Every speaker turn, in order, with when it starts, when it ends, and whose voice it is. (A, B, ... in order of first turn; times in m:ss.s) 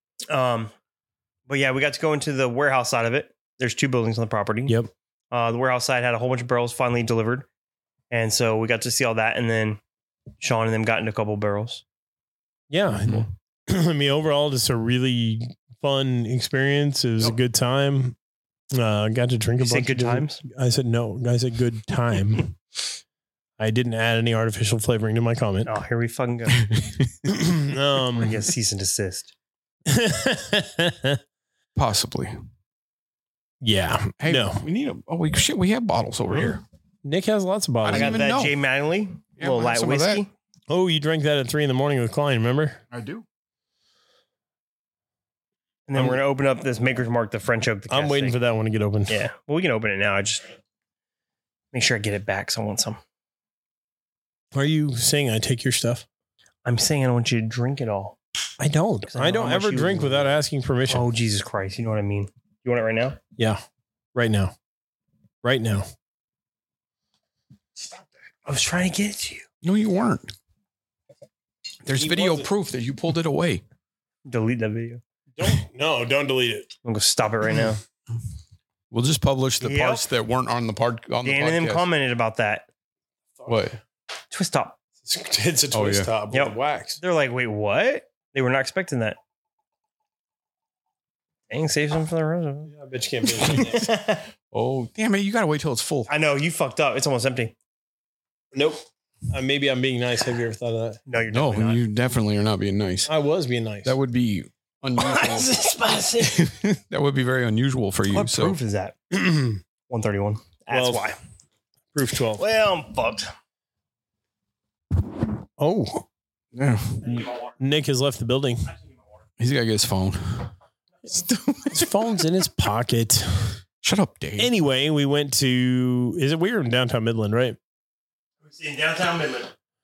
0:00.3-0:00.7 A
0:01.5-0:04.8 A
0:05.3-0:07.4 A
0:08.1-0:09.8 A
0:10.4-0:11.8 A
0:12.7-0:18.2 B
0:18.7-0:22.6 B
0:19.6-0:20.4 A
0:23.6-0:25.7 B
0:25.6-0:26.6 A
0:26.6-0:27.1 C
0:27.2-0:28.4 B
0:28.1-0:29.3 A
0:29.8-0:31.2 B
0:31.8-0:32.4 C
0:33.6-0:34.6 B
0:34.2-0:36.6 C
0:37.0-0:38.2 B
0:37.8-0:38.5 C
0:37.9-0:40.3 A
0:39.4-0:40.2 C
0:40.7-0:42.8 B
0:42.9-0:43.2 C
0:45.9-0:48.4 A
0:47.9-0:49.2 B
0:49.1-0:50.5 A
0:51.7-0:53.0 A
0:54.5-0:56.0 B
0:56.6-0:58.2 A
0:58.6-1:01.1 B
0:59.1-1:00.4 A
1:00.9-1:03.2 A
1:04.1-1:04.5 B
1:05.4-1:05.9 B
1:08.4-1:09.4 A
1:09.6-1:10.3 C
1:11.8-1:13.6 C
1:12.0-1:12.5 B
1:14.2-1:15.0 A
1:15.4-1:16.7 B
1:16.8-1:17.8 A
1:18.9-1:21.8 C
1:19.6-1:20.0 A
1:21.2-1:22.7 A
1:23.4-1:23.8 C
1:24.3-1:24.8 A
1:25.0-1:27.0 B
1:25.7-1:26.1 C
1:26.3-1:29.2 A
1:31.5-1:32.7 A
1:32.7-1:33.9 B
1:33.4-1:34.3 A
1:33.5-1:33.8 C
1:34.5-1:36.1 C
1:36.1-1:37.5 A
1:38.5-1:41.0 B
1:41.1-1:41.8 A
1:41.3-1:43.1 C
1:43.1-1:43.9 B
1:43.8-1:45.5 C
1:45.0-1:46.4 A
1:46.2-1:48.6 C
1:48.1-1:49.0 A
1:49.1-1:49.6 B
1:49.9-1:51.2 A
1:50.7-1:51.1 B
1:51.9-1:52.4 B
1:52.4-1:53.3 A
1:55.6-1:56.0 B
1:56.5-1:57.2 C
1:57.6-1:58.7 B
1:59.4-2:00.5 C
2:01.0-2:01.9 C
2:01.7-2:03.6 B
2:03.8-2:04.5 C
2:04.4-2:07.6 B
2:08.4-2:09.5 A